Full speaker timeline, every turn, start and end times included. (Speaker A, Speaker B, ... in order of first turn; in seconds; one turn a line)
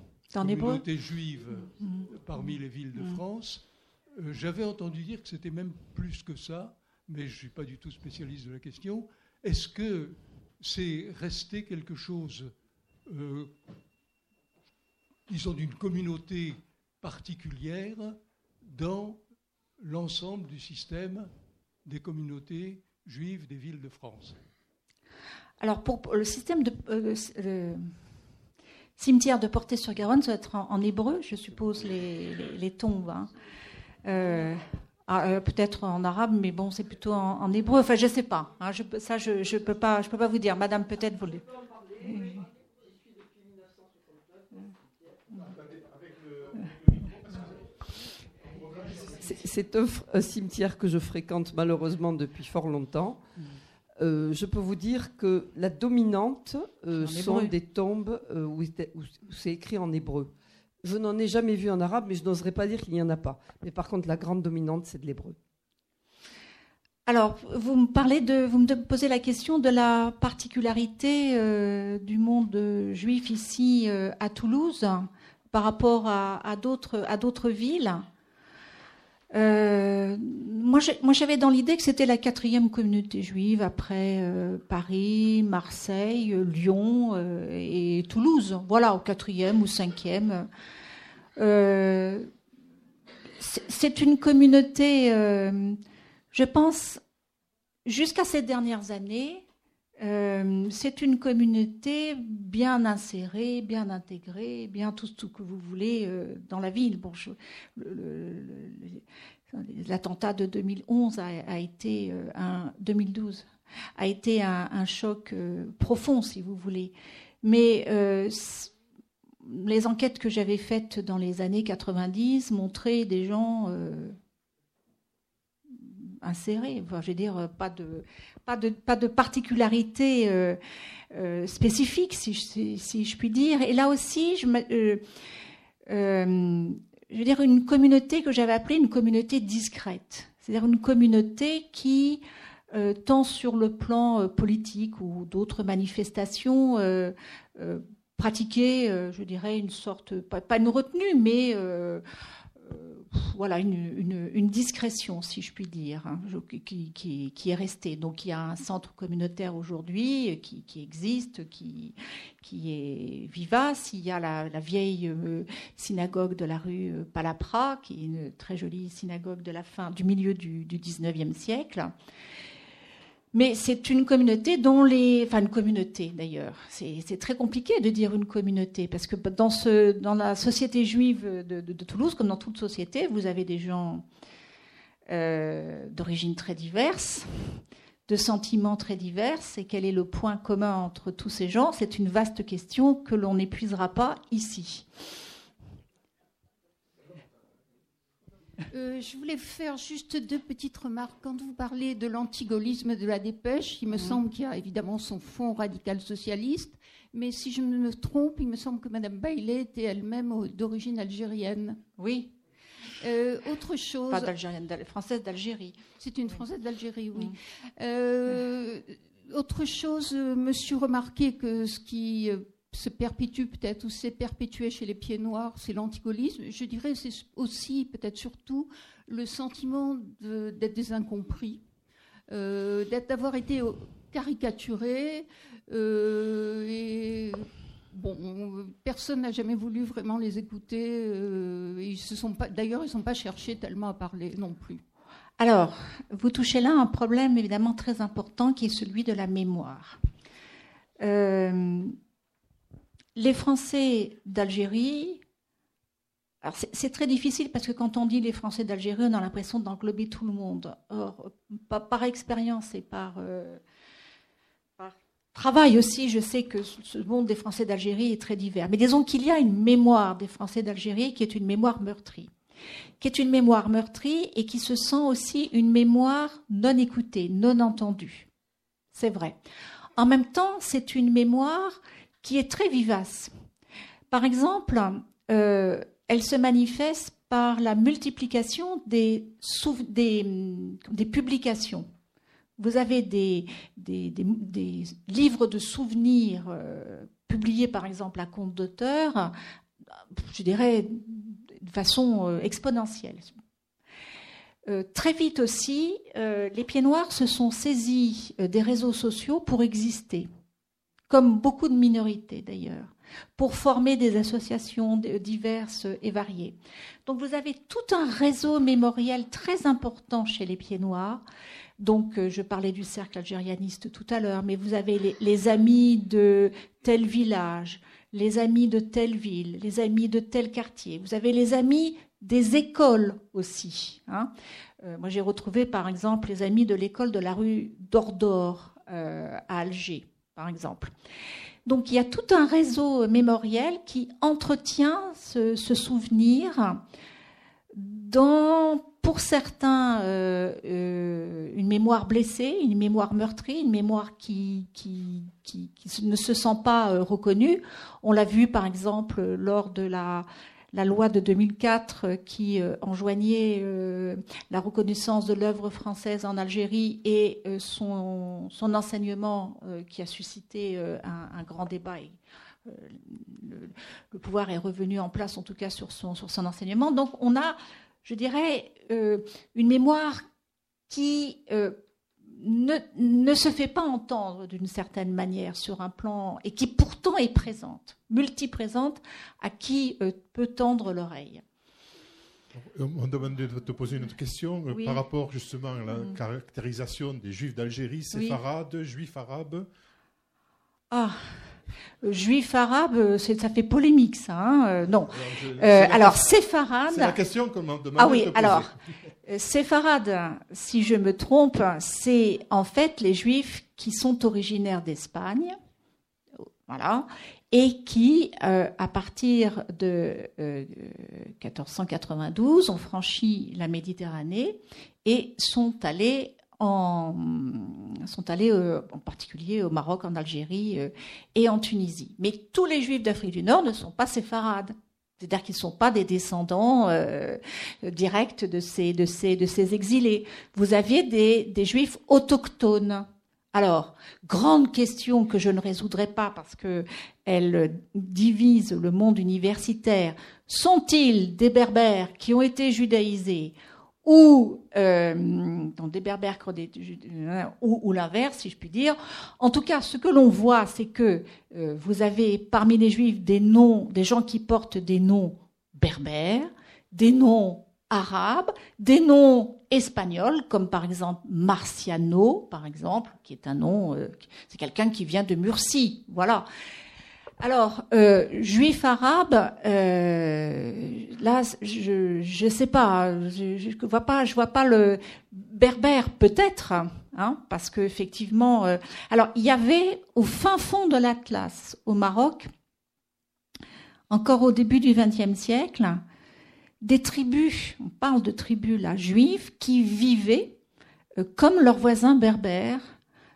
Speaker A: 0.3-0.8
Speaker B: 0.3-12.5
Speaker A: 1.8-3.2
Speaker B: 13.1-13.6
Speaker B: 15.3-19.2
Speaker B: 19.8-21.3
Speaker B: 21.8-24.4
Speaker A: 25.6-27.9
Speaker A: 29.0-33.3
Speaker A: 34.0-41.5
Speaker A: 42.0-42.4
Speaker C: 46.2-46.5
Speaker D: 48.9-53.2
Speaker D: 54.0-60.3
Speaker A: 57.0-57.5
Speaker D: 60.8-65.4
Speaker A: 67.1-78.0
Speaker A: 79.3-90.5
Speaker A: 91.4-92.3
Speaker A: 93.4-95.8
Speaker A: 96.3-97.0
Speaker A: 97.8-99.4
Speaker A: 100.0-113.5
Speaker A: 114.0-118.7
Speaker A: 119.4-124.2
Speaker A: 125.7-130.6
Speaker A: 131.1-135.0
Speaker A: 135.9-152.0
Speaker A: 152.6-171.9
Speaker A: 173.3-184.0
Speaker A: 185.1-187.5
Speaker A: 188.1-194.8
Speaker E: 198.7-211.8
Speaker A: 203.9-204.2
Speaker A: 212.0-212.3
Speaker E: 213.0-214.3
Speaker A: 214.1-216.4
Speaker E: 215.9-231.6
Speaker E: 232.3-244.8
Speaker A: 245.4-250.0
Speaker A: 251.0-251.9
Speaker A: 253.1-255.2
Speaker A: 256.4-263.6
Speaker A: 264.8-272.3
Speaker A: 273.0-278.3
Speaker A: 278.9-279.4
Speaker A: 280.0-283.3
Speaker A: 284.1-291.9
Speaker A: 292.6-299.3
Speaker A: 300.1-303.3
Speaker A: 304.6-310.3
Speaker A: 311.1-321.2
Speaker A: 321.8-334.3
Speaker A: 334.8-340.9
Speaker A: 341.6-346.8
Speaker A: 347.7-380.2
Speaker A: 380.9-391.4
Speaker C: 392.5-399.7
Speaker A: 394.7-395.0
Speaker A: 398.1-398.4
Speaker A: 400.9-401.2
Speaker A: 402.0-407.1
Speaker C: 405.1-406.3
Speaker C: 406.9-408.7
Speaker A: 408.0-408.7
Speaker A: 409.2-415.6
Speaker A: 416.7-476.4
Speaker A: 477.4-492.5
Speaker A: 494.1-496.0
Speaker A: 496.8-500.6
Speaker A: 501.2-502.9